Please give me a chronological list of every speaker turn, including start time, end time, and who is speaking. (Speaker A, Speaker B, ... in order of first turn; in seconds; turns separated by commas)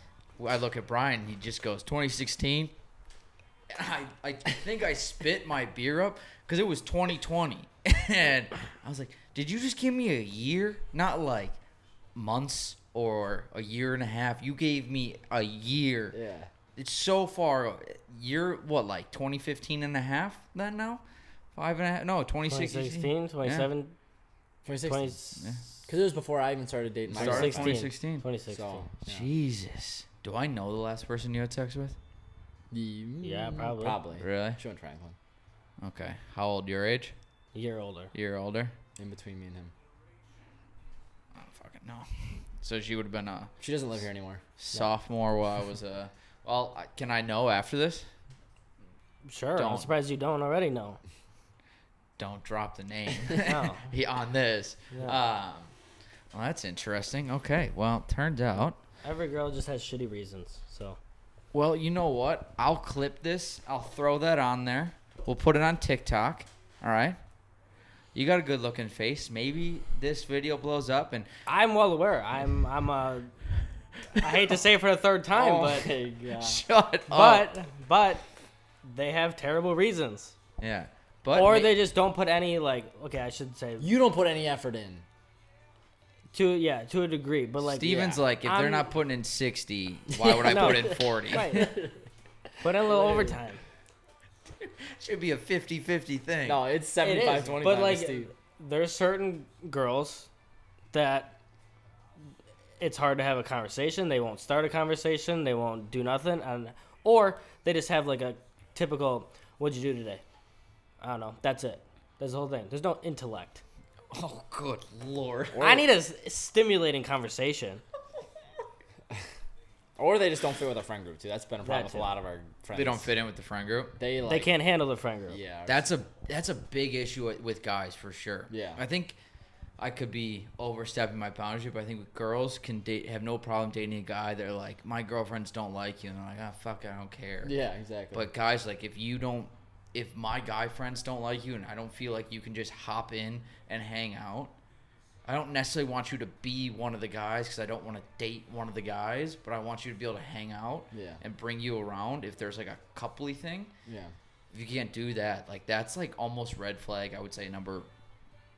Speaker A: 0.4-2.7, Speaker A: 3.7-11.6, Speaker A: 12.2-16.2, Speaker B: 16.1-16.5, Speaker A: 16.8-21.0, Speaker A: 21.6-23.7, Speaker C: 22.5-23.9, Speaker B: 24.7-25.1, Speaker C: 24.9-25.5, Speaker A: 25.4-25.6, Speaker B: 25.9-27.8, Speaker A: 27.1-28.2, Speaker C: 27.1-28.9, Speaker B: 28.5-29.3, Speaker A: 29.1-32.0, Speaker B: 32.7-35.2, Speaker C: 33.2-34.0, Speaker A: 34.2-34.6, Speaker A: 35.8-37.1, Speaker C: 37.5-38.1, Speaker A: 38.1-38.8, Speaker B: 39.0-39.7, Speaker A: 41.3-43.5, Speaker B: 43.6-44.4, Speaker A: 44.6-48.1, Speaker C: 49.2-51.0, Speaker A: 49.6-49.9, Speaker A: 52.2-55.7, Speaker C: 53.4-53.8, Speaker C: 54.9-55.2, Speaker A: 56.3-58.8, Speaker C: 59.0-61.0, Speaker A: 61.5-67.2, Speaker A: 68.1-71.3, Speaker C: 71.5-73.3, Speaker C: 74.1-75.9, Speaker A: 74.2-74.4, Speaker B: 75.3-76.6, Speaker A: 76.4-77.5, Speaker C: 77.1-78.2, Speaker C: 78.8-80.3, Speaker A: 80.6-81.7, Speaker C: 81.3-83.9, Speaker B: 83.8-85.0, Speaker C: 86.3-88.9, Speaker A: 87.6-91.8, Speaker B: 87.8-88.2, Speaker B: 90.2-91.9, Speaker C: 90.3-91.9, Speaker C: 92.6-93.6, Speaker B: 92.9-93.4, Speaker A: 94.6-96.6, Speaker B: 96.5-98.3, Speaker C: 97.0-100.3, Speaker C: 100.9-101.3, Speaker C: 102.8-110.2, Speaker C: 111.0-113.6, Speaker A: 114.1-115.6, Speaker B: 115.5-115.8, Speaker C: 115.6-117.8, Speaker B: 120.0-123.1, Speaker C: 121.6-122.1, Speaker A: 122.7-124.0, Speaker B: 124.0-124.5, Speaker C: 124.2-125.4, Speaker B: 125.3-125.9, Speaker A: 125.7-129.2, Speaker B: 128.5-128.8, Speaker A: 129.8-137.5, Speaker B: 137.4-138.3, Speaker A: 138.1-144.6, Speaker A: 145.3-153.7, Speaker B: 150.9-151.2, Speaker B: 153.9-154.1, Speaker A: 154.5-157.9